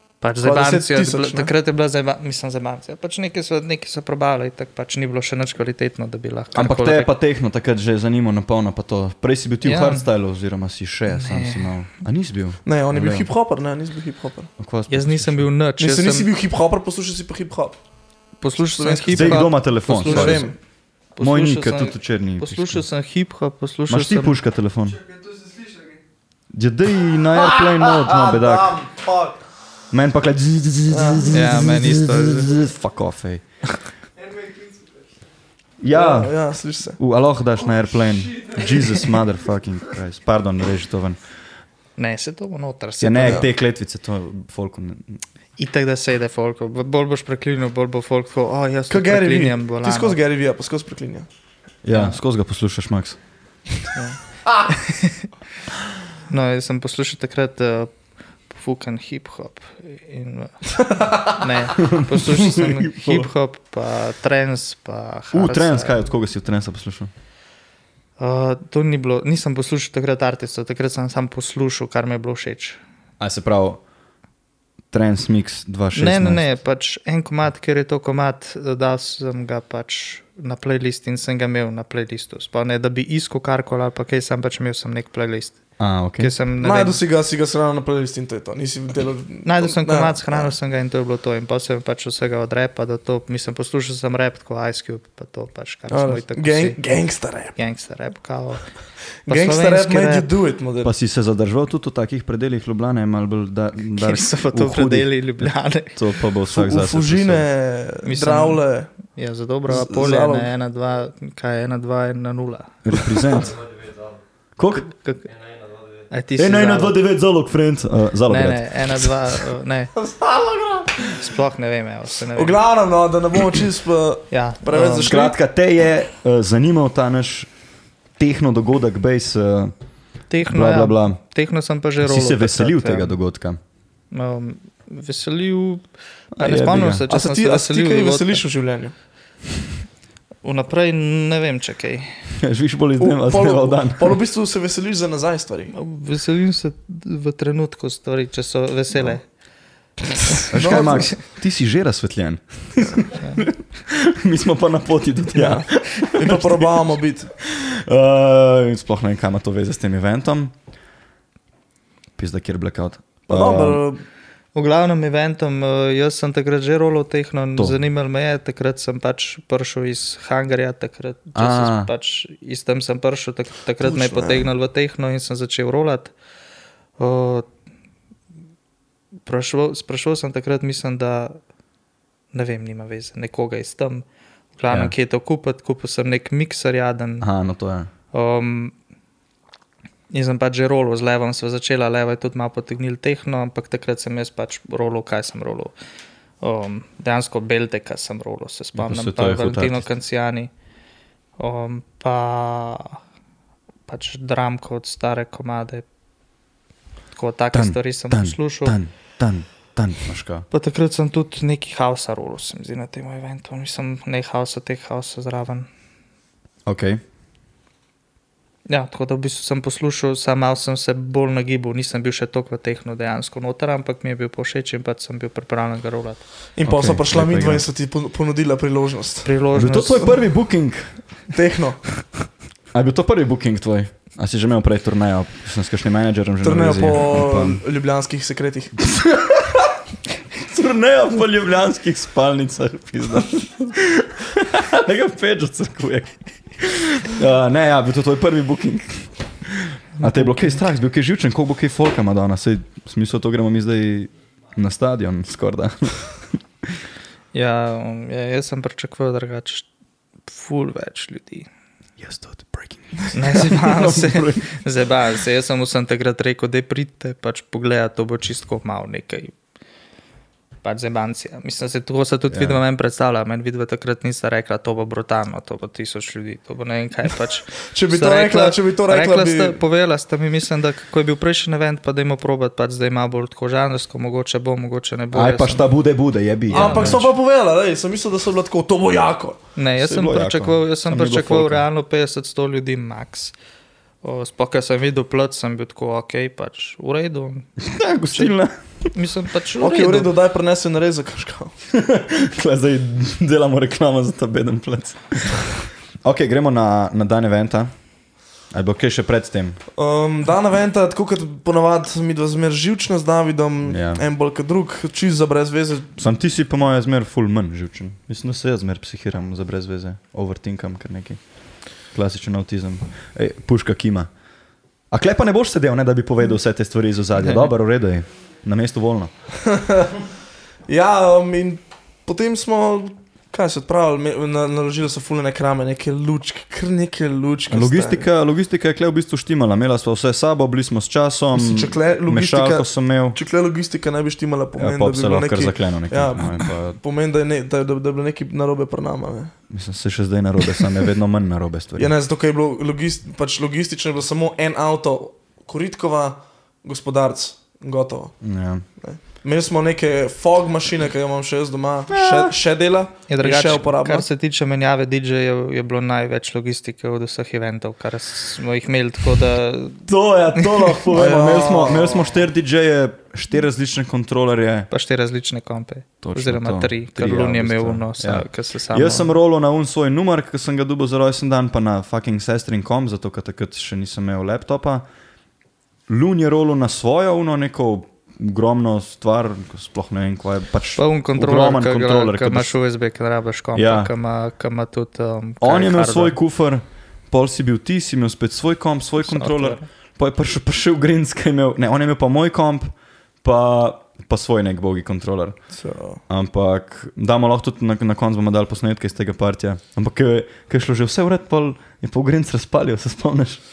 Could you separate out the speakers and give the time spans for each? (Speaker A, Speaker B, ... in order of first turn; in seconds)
Speaker A: 0.2-7.1, 9.6-10.1, 11.1-11.7, 14.9-16.3, 18.4-20.5, 21.2-24.4, 31.3-32.6, 42.0-43.5, 45.6-50.2, 51.9-52.2, 54.0-55.3, 56.3-57.9, 58.5-66.0, 68.2-72.8, 75.9-85.6, 86.2-87.0, 89.5-96.8, 97.6-98.7, 99.3-100.3, 104.0-106.0, 108.1-113.5, 114.9-115.3, 116.1-117.0, 118.3-119.9, 121.1-122.6, 124.3-125.1, 130.3-133.1, 134.1-135.8, 136.4-138.4, 140.4-142.1, 145.7-149.2, 164.6-176.1, 177.0-177.5, 179.3-181.4, 182.3-184.1, 184.6-187.3, 188.1-188.8, 190.1-195.7, 196.4-200.5, 201.4-203.0, 203.9-205.8, 207.1-208.8, 210.5-215.7, 218.7-226.2, 229.2-230.2, 250.0-250.6, 257.3-259.7, 260.3-261.5, 263.1-269.3, 270.6-285.7, 286.5-287.1, 289.6-293.3, 294.0-297.5, 298.9-300.1, 363.1-369.8, 370.4-370.8, 374.7-379.1, 390.8-396.2, 399.0-399.7
Speaker B: 0.4-1.5, 12.7-14.5, 15.8-17.8, 18.8-20.6, 28.8-29.3, 30.9-31.3, 35.9-37.0, 48.9-51.3, 86.6-90.5, 95.9-97.6, 99.2-100.9, 106.5-108.9, 109.7-110.5, 120.0-121.0, 122.3-125.4, 137.1-138.9, 143.0-145.7, 150.3-151.2, 155.3-157.3, 163.3-164.0, 173.8-174.5, 226.6-229.3, 231.3-231.8, 236.4-238.9, 277.7-279.6, 286.5-289.4, 299.6-301.5, 309.8-315.9, 329.4-330.0, 330.7-338.1, 341.3-349.3, 351.8-358.1, 358.8-364.1, 370.9-372.2, 405.5-406.0
Speaker C: 6.5-13.3, 14.6-15.5, 19.1-20.5, 21.2-22.8, 23.9-25.0, 26.5-28.9, 29.9-33.4, 35.8-36.4, 37.0-41.2, 43.0-45.2, 51.8-53.2, 61.8-63.3, 65.3-67.1, 73.2-73.8, 74.9-76.4, 85.8-86.3, 100.8-107.5, 112.8-113.6, 114.6-114.9, 116.4-119.1, 124.8-127.5, 128.2-129.7, 130.5-131.2, 132.0-133.6, 136.3-137.0, 142.4-144.2, 150.5-156.9, 157.4-160.5, 162.2-163.8, 171.3-171.9, 187.2-187.9, 198.8-199.9, 207.5-210.5, 216.7-217.0, 226.7-227.7, 229.5-230.9, 232.7-237.6, 238.8-239.8, 240.4-256.1, 262.0-264.6, 272.3-272.6, 285.1-287.1, 289.8-291.6, 297.6-298.9, 301.7-305.5, 306.0-307.7, 308.5-309.6, 313.7-314.0, 316.0-321.2, 321.9-324.1, 324.9-329.1, 337.5-343.2, 344.6-346.8, 349.5-351.9, 358.2-358.6, 361.9-362.4, 369.9-374.7, 376.0-384.9, 385.9-392.6, 393.6-393.9, 395.4-402.7, 403.2-405.4, 406.1-413.4